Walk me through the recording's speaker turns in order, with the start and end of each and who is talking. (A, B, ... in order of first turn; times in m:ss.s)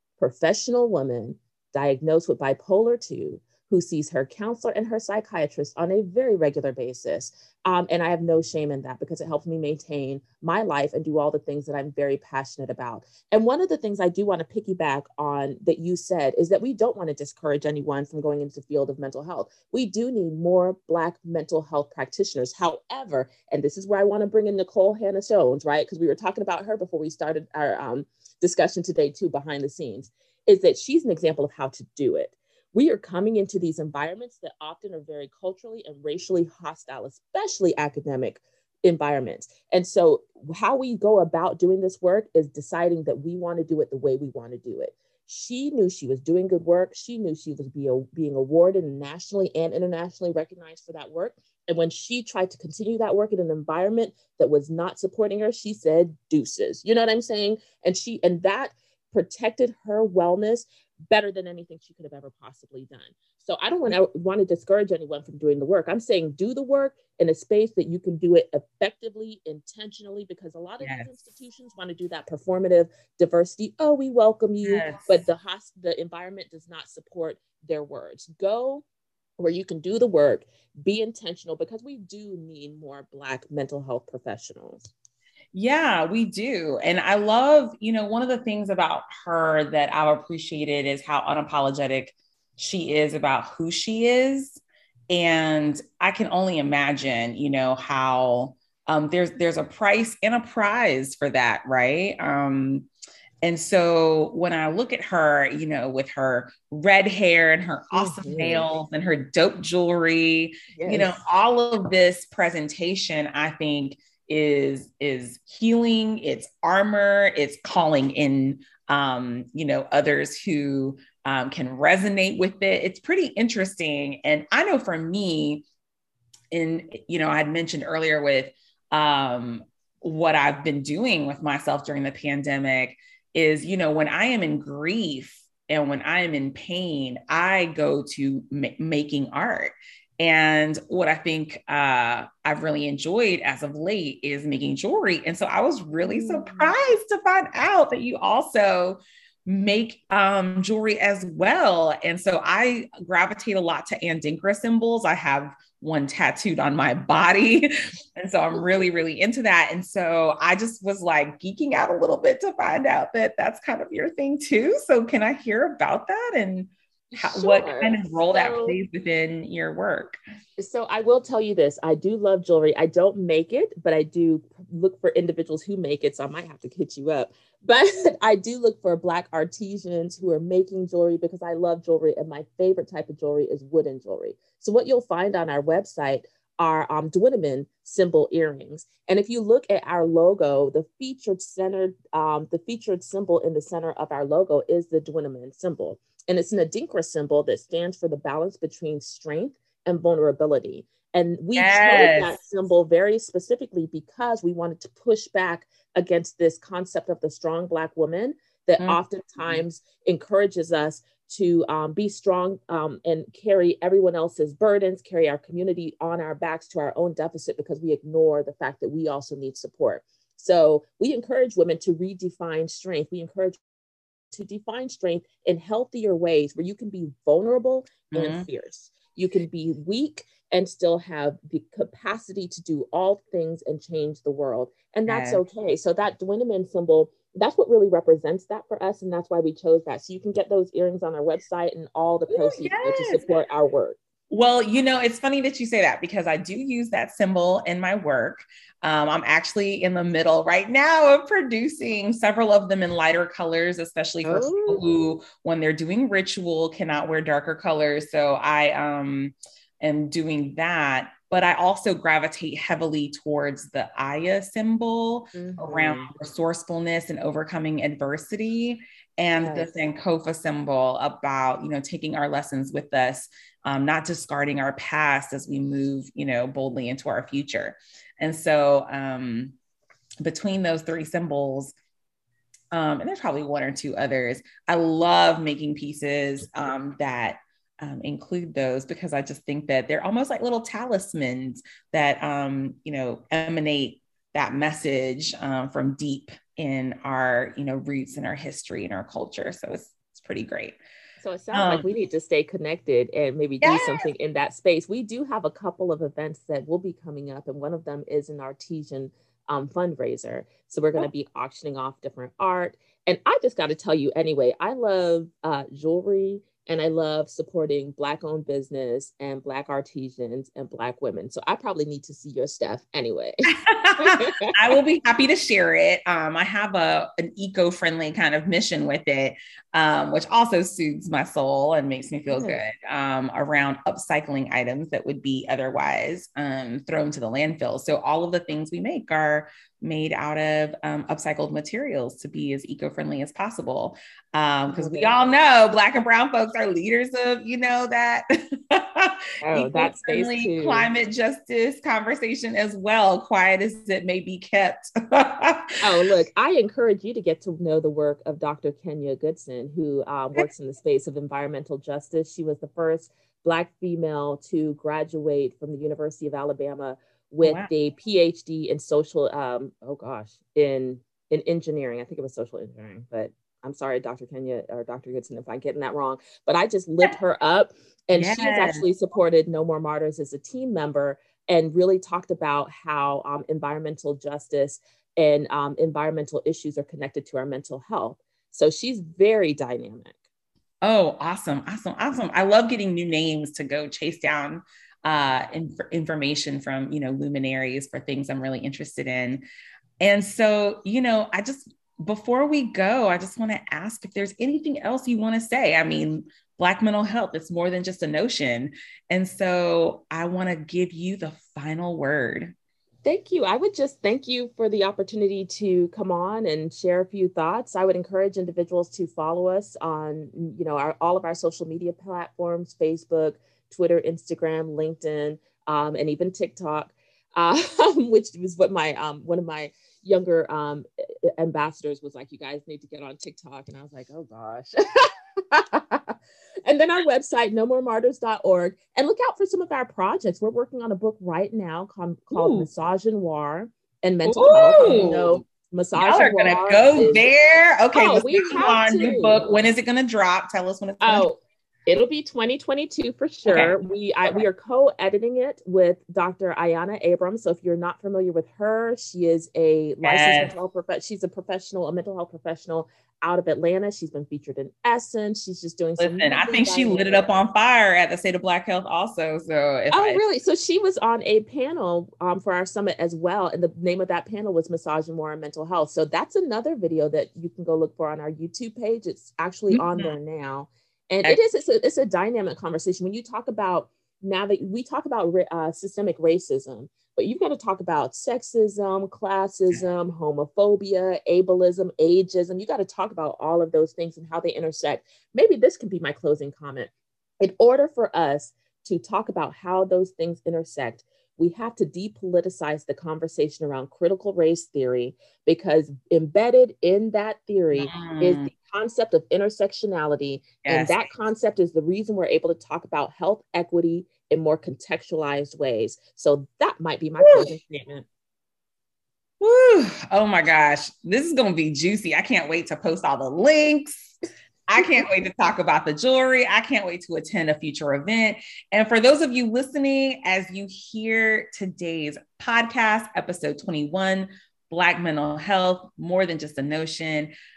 0:00.2-1:18.8 A
1:10.8-1:11.1 B
1:14.6-1:15.2 B
1:19.4-1:24.8 A
1:25.5-1:42.9 B
1:43.4-2:05.6 B
1:47.9-1:48.7 A
1:50.7-1:51.2 A
2:06.5-2:50.2 B
2:26.0-2:26.7 A
2:47.1-2:48.8 A
2:50.6-3:43.6 A
3:21.6-3:22.4 B
3:28.8-3:29.6 B
3:44.3-4:04.0 A
3:48.1-3:48.5 B
3:55.1-3:55.4 B
4:02.3-4:03.2 B
4:04.3-4:39.5 B
4:14.2-4:14.8 A
4:25.3-4:26.1 A
4:29.4-4:29.7 A
4:40.2-4:41.7 B
4:42.7-5:00.8 B
5:01.2-5:24.5 A
5:01.5-5:01.9 B
5:03.6-5:04.0 B
5:23.5-5:55.8 B
5:32.3-5:32.6 A
5:44.7-5:45.2 A
5:49.4-5:50.9 A
5:55.8-6:30.2 A
6:07.4-6:07.7 B
6:18.1-6:18.8 B
6:30.8-6:39.4 B
6:40.0-6:52.5 B
6:53.0-7:27.3 A
7:22.3-7:22.7 B
7:24.2-7:25.4 B
7:26.0-7:31.2 B
7:27.9-7:29.5 A
7:31.0-7:47.2 A
7:33.5-7:33.7 B
7:40.0-7:40.5 B
7:46.0-7:50.2 B
7:49.9-8:38.1 A
7:59.7-8:00.1 B
8:27.7-8:28.5 B
8:30.6-8:31.1 B
8:37.2-8:37.5 B
8:39.4-8:57.3 B